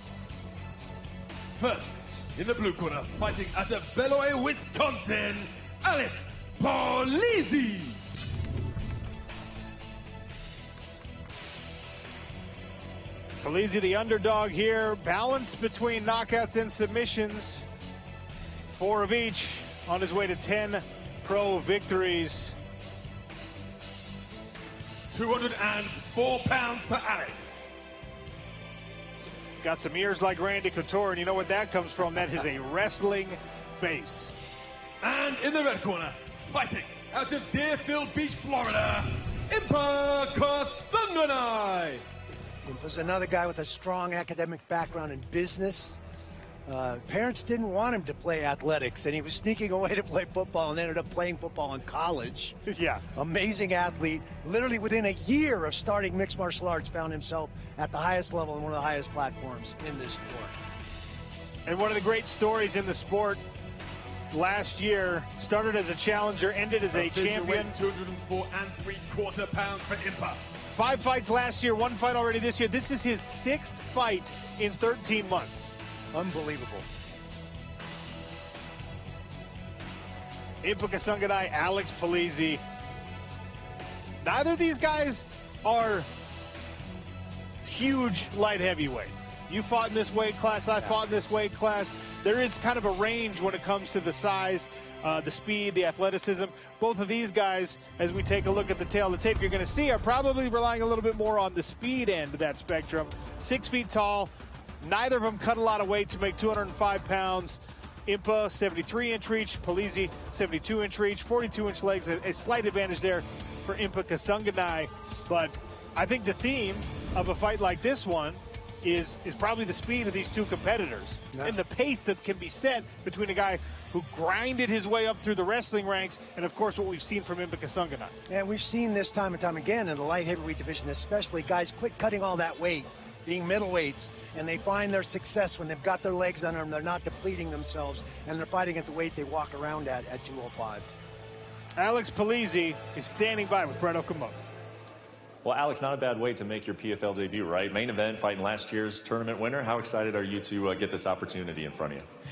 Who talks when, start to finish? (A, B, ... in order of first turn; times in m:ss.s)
0:01.5-0:08.0 A
0:13.4-0:17.6 B
0:18.7-0:22.6 B
0:25.1-0:27.6 A
0:29.6-0:34.3 B
0:35.0-0:42.0 A
0:42.6-0:46.0 C
0:46.6-0:52.6 C
0:52.7-0:53.0 B
0:53.2-1:00.6 C
1:01.6-1:03.4 B
1:04.3-1:07.7 B
1:06.9-1:10.4 A
1:10.7-1:15.7 B
1:16.1-1:16.9 C
1:20.6-1:22.6 B
1:24.2-1:26.1 B
1:27.6-2:08.2 B
2:01.3-2:01.6 C
2:08.3-2:20.9 C
2:21.8-2:24.4 B
2:25.4-2:32.0 D